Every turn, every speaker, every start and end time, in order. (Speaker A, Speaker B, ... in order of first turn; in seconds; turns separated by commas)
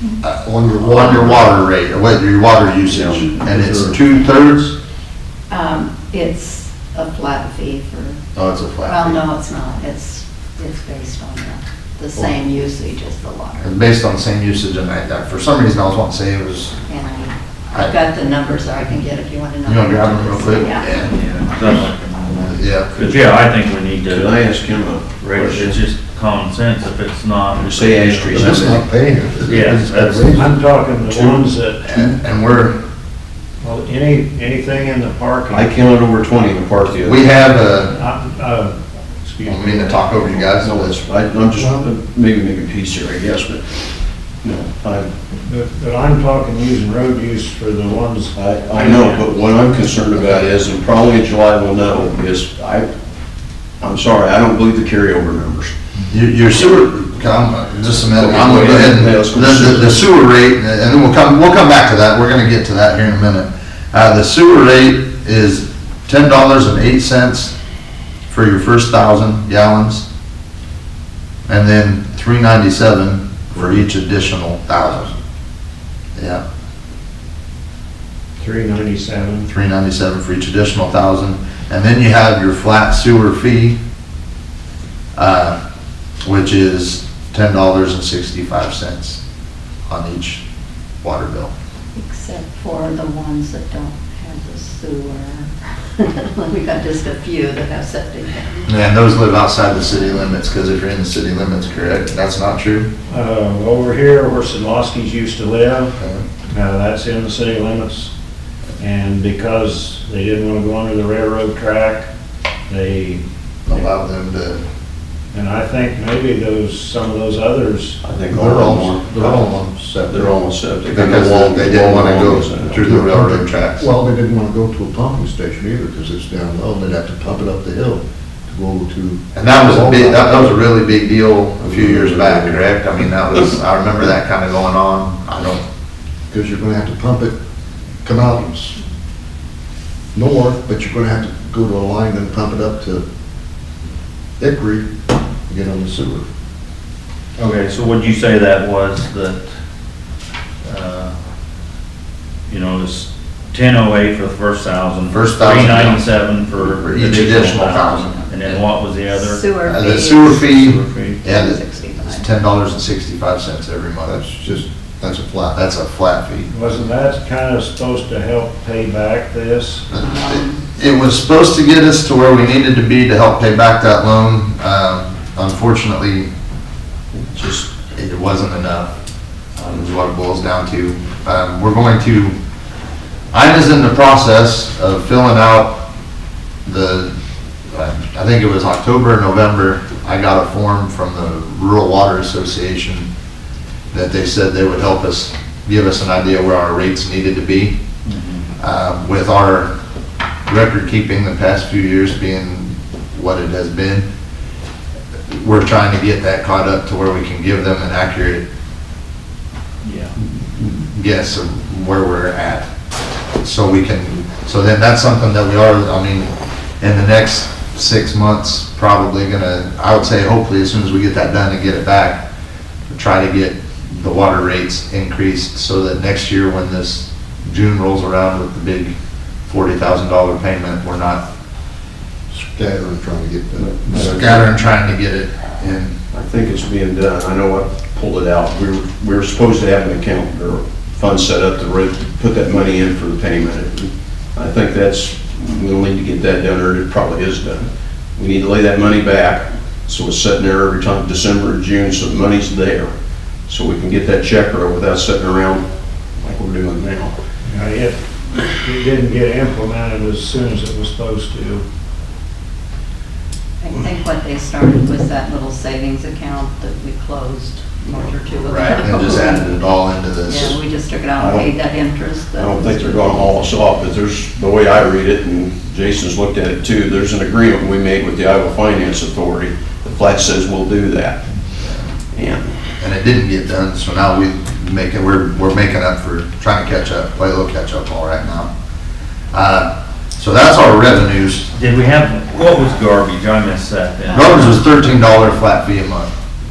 Speaker A: 0.2-4.7, Speaker B: 0.3-1.5, Speaker C: 2.9-3.9, Speaker D: 5.5-8.2, Speaker A: 8.3-9.2, Speaker D: 8.8-13.7, Speaker A: 13.6-16.8, Speaker D: 16.9-21.1, Speaker A: 19.6-21.1, Speaker E: 21.1-24.3, Speaker A: 22.5-22.9, Speaker C: 24.1-25.8, Speaker E: 25.2-28.8, Speaker C: 27.6-28.8, Speaker B: 28.3-30.6, Speaker E: 29.4-30.4, Speaker F: 30.3-32.1, Speaker C: 31.1-31.4, Speaker A: 31.9-32.8, Speaker F: 33.6-35.7, Speaker C: 35.5-37.2, Speaker A: 37.0-37.9, Speaker F: 37.7-40.4, Speaker A: 39.5-40.9, Speaker C: 40.5-43.6, Speaker B: 41.6-41.8, Speaker C: 44.4-45.1, Speaker F: 45.5-49.3, Speaker C: 48.4-52.9, Speaker C: 53.8-55.8, Speaker A: 56.1-67.5, Speaker C: 58.1-60.1, Speaker A: 68.3-70.1, Speaker A: 71.5-75.1, Speaker A: 76.2-76.4, Speaker F: 78.4-79.5, Speaker A: 79.5-83.8, Speaker A: 85.1-85.6, Speaker A: 86.2-89.2, Speaker A: 89.9-90.4, Speaker A: 91.0-91.5, Speaker D: 91.9-98.7, Speaker A: 98.7-102.9, Speaker F: 103.1-105.9, Speaker F: 106.5-108.1, Speaker F: 108.8-112.1, Speaker F: 112.7-113.2, Speaker A: 113.7-114.6, Speaker F: 115.3-118.0, Speaker C: 118.0-119.4, Speaker B: 118.3-120.3, Speaker C: 120.1-122.9, Speaker A: 120.9-123.9, Speaker B: 122.8-130.7, Speaker A: 129.3-135.6, Speaker B: 131.7-132.5, Speaker C: 132.0-132.4, Speaker B: 136.3-137.3, Speaker B: 138.0-138.8, Speaker B: 140.1-143.0, Speaker B: 144.4-144.9, Speaker B: 145.5-146.2, Speaker E: 147.4-149.4, Speaker E: 150.6-151.2, Speaker E: 152.5-159.4, Speaker A: 155.1-156.1, Speaker A: 156.6-158.2, Speaker D: 159.1-162.2, Speaker A: 159.7-164.2, Speaker F: 160.5-161.0, Speaker B: 164.0-165.6, Speaker A: 165.5-166.5, Speaker F: 166.5-169.9, Speaker A: 169.9-176.3, Speaker D: 170.0-170.7, Speaker C: 177.3-177.6, Speaker A: 177.7-178.9, Speaker A: 179.6-182.3, Speaker A: 183.3-185.9, Speaker A: 186.6-187.1, Speaker A: 187.7-193.1, Speaker A: 193.9-197.8, Speaker E: 198.1-198.5, Speaker A: 198.6-199.7, Speaker A: 200.5-204.1, Speaker A: 205.3-208.4, Speaker E: 209.8-210.1, Speaker A: 210.6-212.7, Speaker A: 213.4-222.2, Speaker A: 222.9-228.9, Speaker A: 229.5-231.2, Speaker B: 232.3-234.5, Speaker A: 233.9-235.9, Speaker C: 236.1-247.6, Speaker C: 248.2-252.9, Speaker C: 253.5-255.6, Speaker C: 256.2-257.1, Speaker F: 257.4-261.6, Speaker D: 263.6-269.5, Speaker A: 268.4-270.6, Speaker D: 270.2-273.5, Speaker C: 271.2-271.5, Speaker C: 272.4-281.2, Speaker C: 282.1-282.6, Speaker A: 282.8-288.5, Speaker A: 289.3-291.5, Speaker E: 291.5-294.8, Speaker D: 294.1-294.5, Speaker A: 294.1-296.1